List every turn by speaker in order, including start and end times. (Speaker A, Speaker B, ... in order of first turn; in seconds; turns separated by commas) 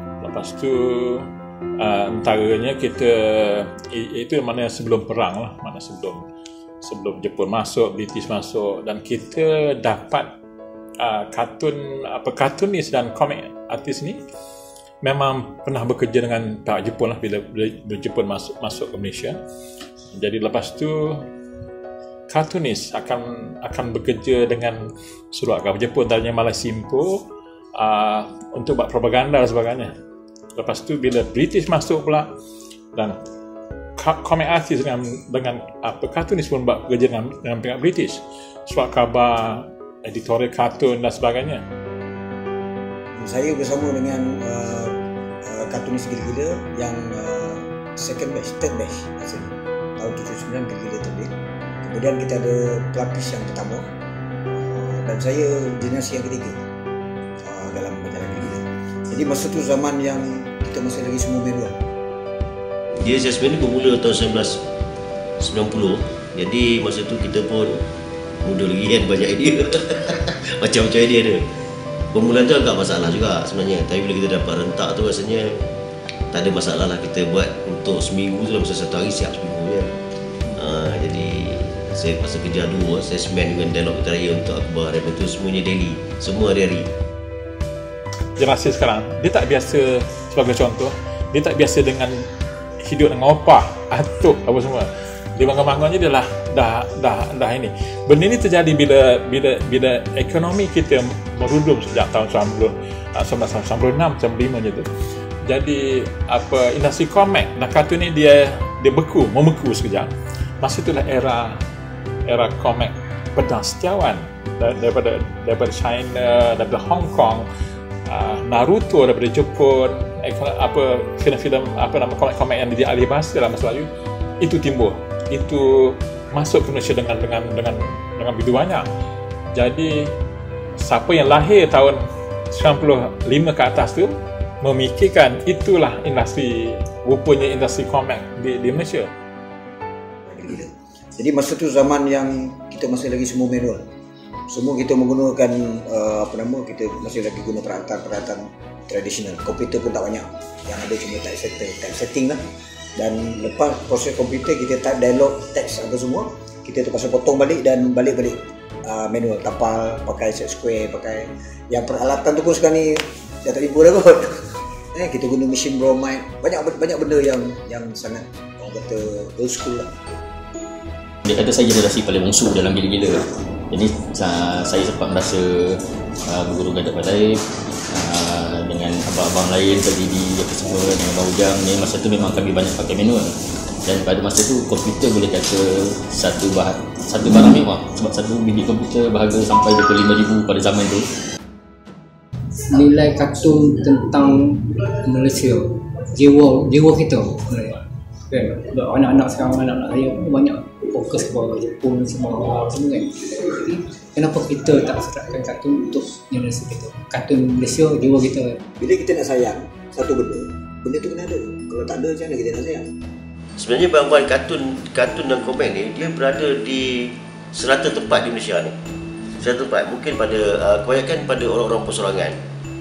Speaker A: 0.2-6.2, Speaker A: 6.8-10.3, Speaker A: 11.0-14.2, Speaker A: 15.0-19.4, Speaker A: 20.1-21.3, Speaker A: 22.3-27.2, Speaker A: 27.7-29.9, Speaker A: 30.5-32.3, Speaker A: 34.0-41.6, Speaker B: 43.2-44.9, Speaker B: 45.5-51.3, Speaker B: 51.8-53.8, Speaker B: 54.5-56.6, Speaker B: 57.4-61.8, Speaker C: 63.0-64.6, Speaker C: 65.4-67.8, Speaker C: 68.4-71.4, Speaker C: 72.1-75.5, Speaker C: 76.3-79.9, Speaker C: 80.6-86.9, Speaker A: 88.4-92.2, Speaker A: 92.8-104.9, Speaker A: 105.4-111.6, Speaker A: 112.3-117.5, Speaker A: 118.1-123.9, Speaker A: 124.4-128.8, Speaker A: 129.5-130.1, Speaker A: 130.8-139.1, Speaker B: 140.3-143.8, Speaker B: 144.5-152.4, Speaker B: 152.9-169.9, Speaker D: 171.2-183.3, Speaker D: 183.8-191.0, Speaker E: 192.7-197.8, Speaker E: 198.3-208.5, Speaker B: 208.8-212.8, Speaker C: 213.6-218.7, Speaker C: 219.4-222.4